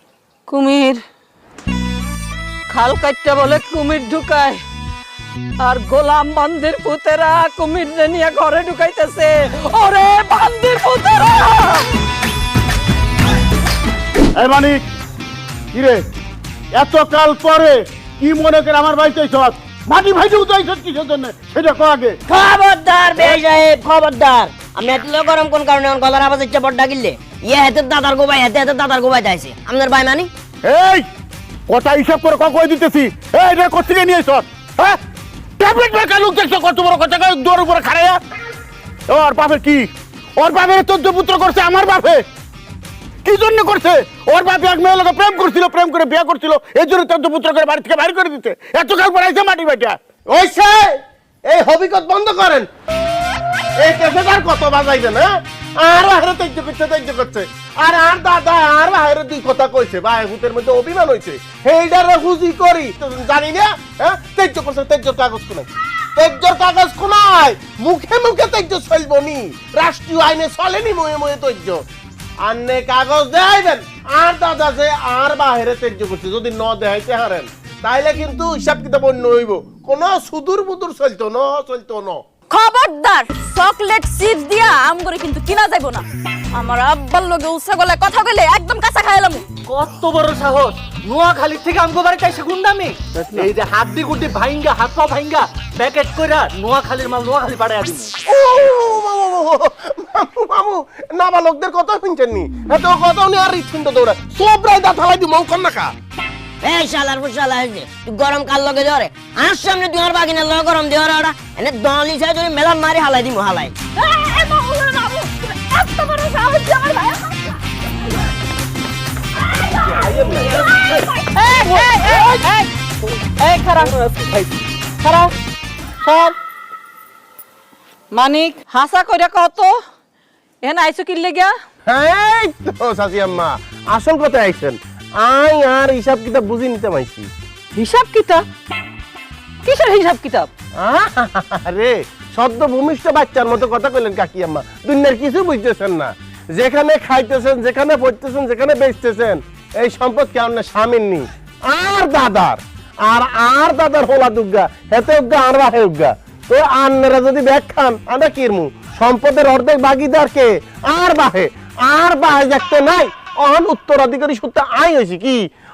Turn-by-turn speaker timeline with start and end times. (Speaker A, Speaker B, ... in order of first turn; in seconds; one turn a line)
Speaker A: 0.5-1.0
Speaker A: 2.7-4.6
Speaker A: 5.6-11.9
Speaker B: 14.3-14.8
Speaker B: 15.7-16.0
Speaker B: 16.7-22.2
Speaker C: 22.2-30.3
Speaker B: 30.6-31.0
Speaker B: 31.7-35.0
Speaker B: 35.6-38.2
Speaker B: 39.1-42.2
Speaker B: 43.2-50.0
Speaker D: 50.3-52.7
Speaker D: 53.8-71.8
Speaker D: 72.4-82.2
Speaker E: 82.5-89.4
Speaker F: 89.7-98.1
Speaker D: 98.2-105.9
Speaker C: 106.6-113.7
Speaker E: 114.0-117.6
Speaker E: 119.8-122.4
Speaker A: 121.3-122.7
Speaker A: 123.3-124.4
Speaker A: 125.0-125.3
Speaker A: 126.0-126.3
Speaker A: 128.1-129.8
Speaker A: 130.6-131.5
Speaker D: 131.8-137.3
Speaker A: 137.7-138.4
Speaker A: 139.6-140.5
Speaker D: 140.8-165.4